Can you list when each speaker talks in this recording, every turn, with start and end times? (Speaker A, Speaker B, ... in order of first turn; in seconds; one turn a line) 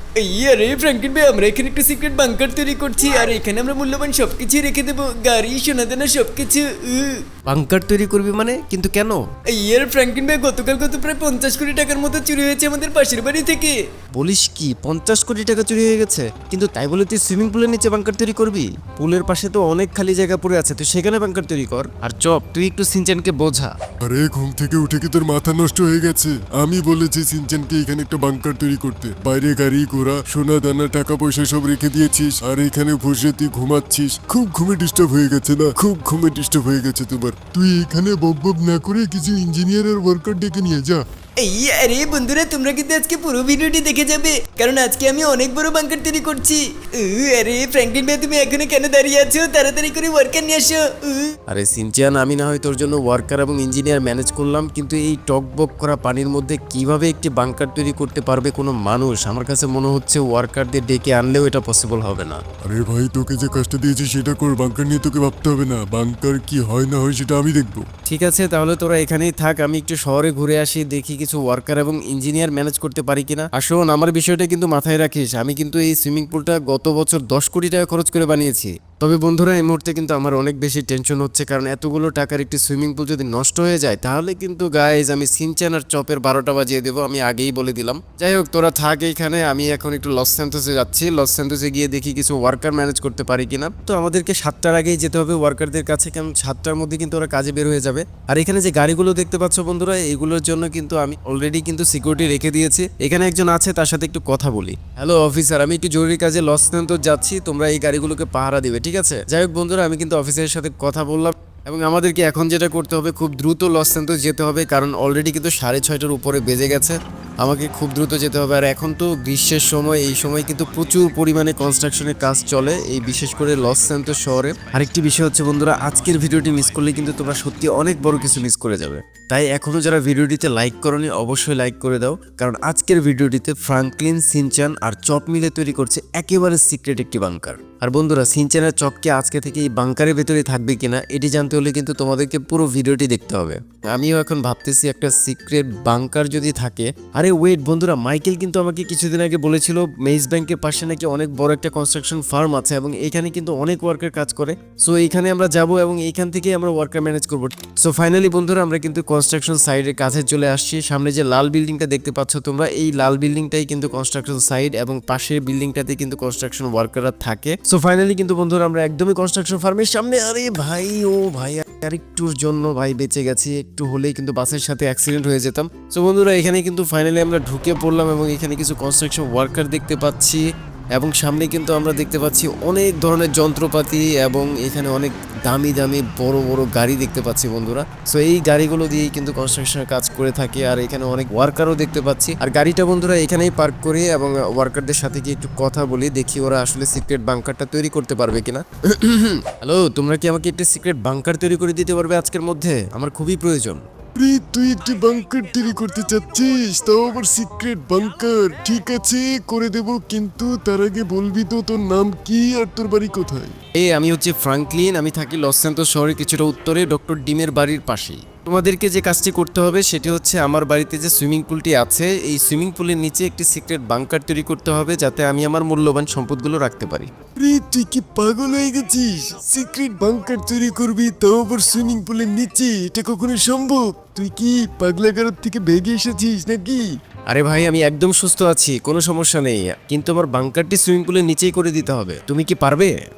Speaker A: 0.2-7.2
Speaker B: 7.5-9.2
Speaker A: 9.5-13.8
Speaker B: 14.2-23.7
Speaker C: 24.0-41.0
Speaker A: 41.4-51.3
Speaker B: 51.5-62.4
Speaker C: 62.6-67.9
Speaker B: 68.1-203.8
Speaker C: 204.2-213.6
Speaker B: 213.8-227.1
Speaker C: 227.4-236.9
Speaker B: 237.3-242.9